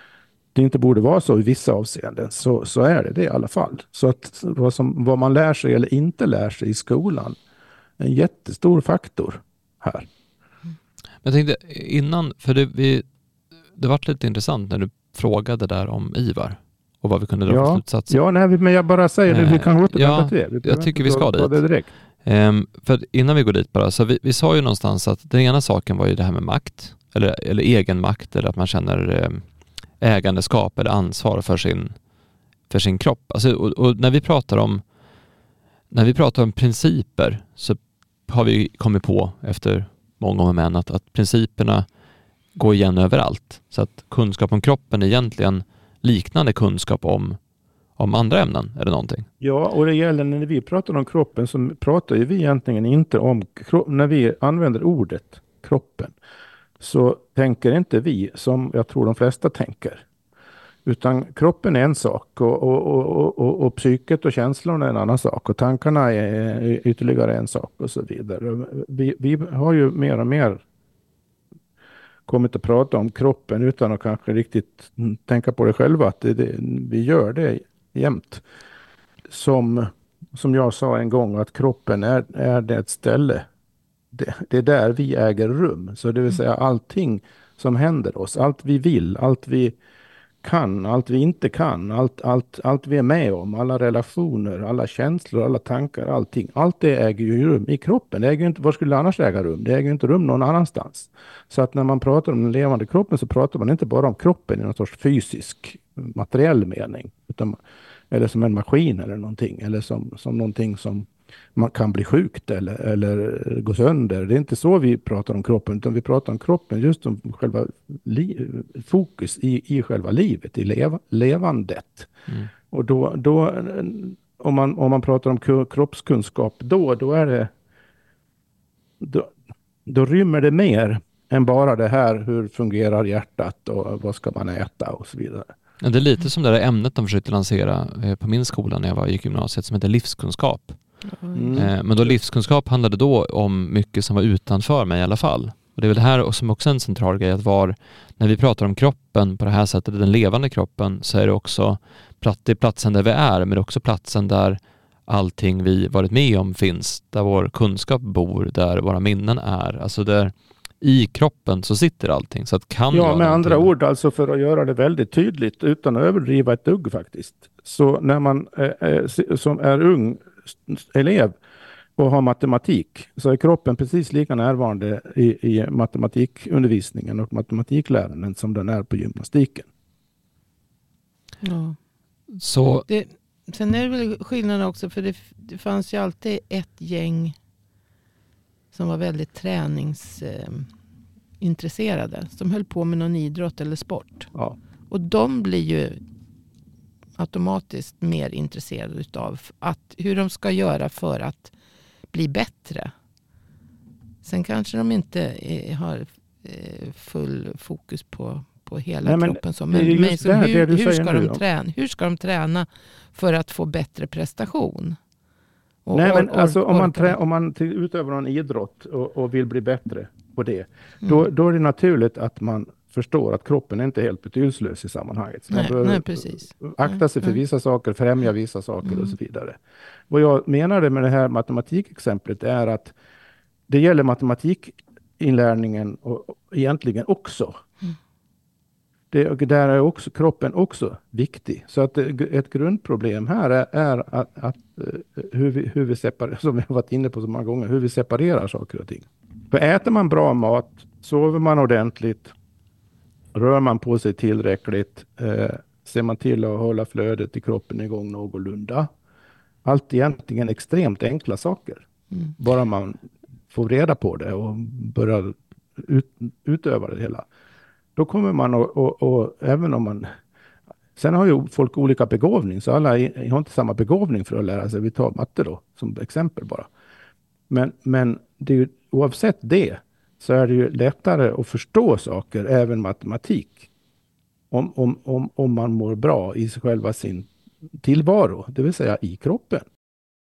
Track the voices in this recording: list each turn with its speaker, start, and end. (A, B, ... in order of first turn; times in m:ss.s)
0:00.6-0:07.4 A
0:08.0-0:10.1 A
0:11.2-0:13.0 B
0:13.8-0:18.2 B
0:17.5-0:21.9 A
0:19.3-0:21.6 B
0:22.2-0:29.4 B
0:30.0-0:32.0 B
0:32.7-0:34.8 B
0:35.9-0:41.9 B
0:42.6-0:47.4 B
0:48.0-0:49.3 B
0:49.4-0:56.1 A
0:56.8-1:00.0 A
1:00.8-1:10.6 A
1:12.3-1:18.4 A
1:19.3-1:23.5 A
1:24.1-1:29.8 A
1:30.4-1:47.6 A
1:48.1-2:02.1 A
2:02.7-2:07.5 A
2:09.0-2:09.3 A
2:09.9-2:15.5 A
2:15.8-2:20.8 B
2:21.0-2:21.6 C
2:21.4-2:22.2 A
2:21.5-2:43.7 B
2:42.9-2:51.4 A
2:52.0-2:59.7 A
3:01.4-3:01.8 C
3:02.4-3:02.9 B
3:02.9-3:07.4 C
3:08.7-3:10.7 C
3:11.4-3:14.3 C
3:14.9-3:16.0 C
3:17.2-3:21.5 C
3:22.1-3:22.9 C
3:24.2-3:35.0 C
3:29.0-3:31.4 A
3:35.8-3:37.2 C
3:35.9-3:49.6 A
3:45.5-3:47.4 C
3:48.8-3:49.1 C
3:50.1-3:53.0 A
3:53.7-3:57.5 A
3:59.1-4:12.3 A
4:13.3-4:18.9 A
4:19.6-4:21.9 A
4:22.4-4:27.3 A
4:28.0-4:30.1 A
4:31.0-4:36.7 A
4:37.5-4:43.7 A
4:44.5-4:47.3 A
4:47.8-4:49.7 A